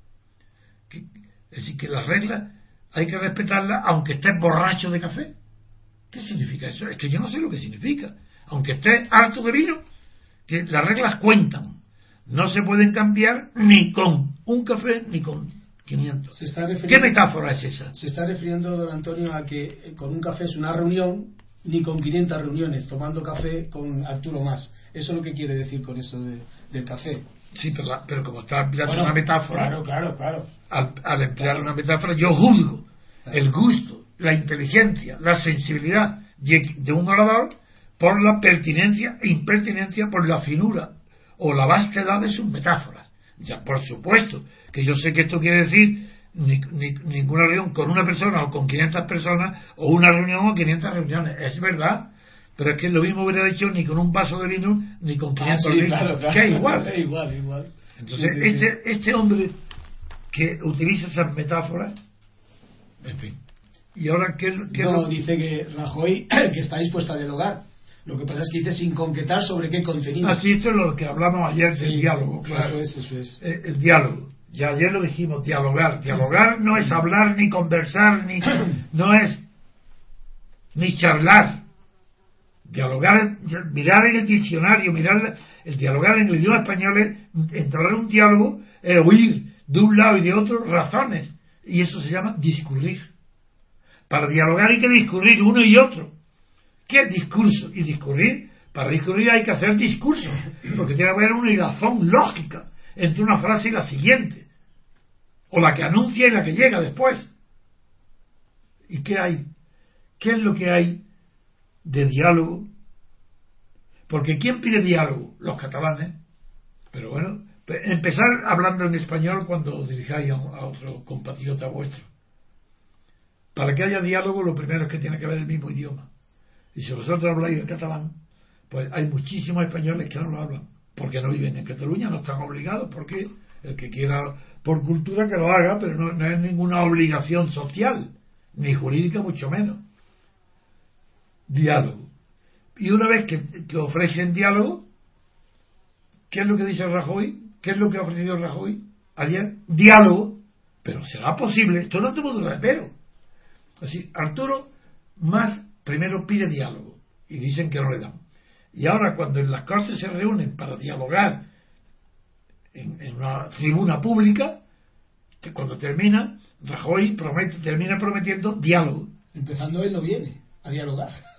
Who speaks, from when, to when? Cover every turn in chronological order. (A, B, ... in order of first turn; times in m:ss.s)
0:00.9-0:05.3 A
0:06.1-0:09.8 A
0:10.5-0:11.8 A
0:12.3-0:16.3 A
0:16.3-0:17.2 B
0:16.9-0:17.9 A
0:17.9-0:27.2 B
0:27.5-0:29.8 A
0:28.8-0:30.5 B
0:30.7-0:56.9 A
0:31.4-0:31.6 B
0:55.4-0:58.7 B
0:58.0-0:59.5 A
1:00.3-1:01.9 A
1:03.0-1:03.4 A
1:03.9-1:05.1 A
1:04.7-1:10.4 B
1:10.2-1:12.8 A
1:11.7-1:13.4 B
1:13.4-1:19.4 A
1:20.7-1:21.6 A
1:22.6-1:33.1 A
1:34.1-1:36.1 A
1:36.9-1:44.5 A
1:45.5-1:47.3 A
1:48.9-1:49.4 A
1:50.2-1:51.0 A
1:51.8-1:52.7 A
1:54.1-1:56.1 A
1:56.9-2:02.1 A
2:03.5-2:06.1 A
2:06.7-2:08.1 A
2:08.7-2:19.8 A
2:21.5-2:22.1 A
2:22.8-2:24.8 A
2:26.3-2:32.9 A
2:33.8-2:38.2 A
2:38.7-2:41.4 A
2:42.7-2:44.6 A
2:45.4-2:49.1 A
2:49.3-2:51.2 B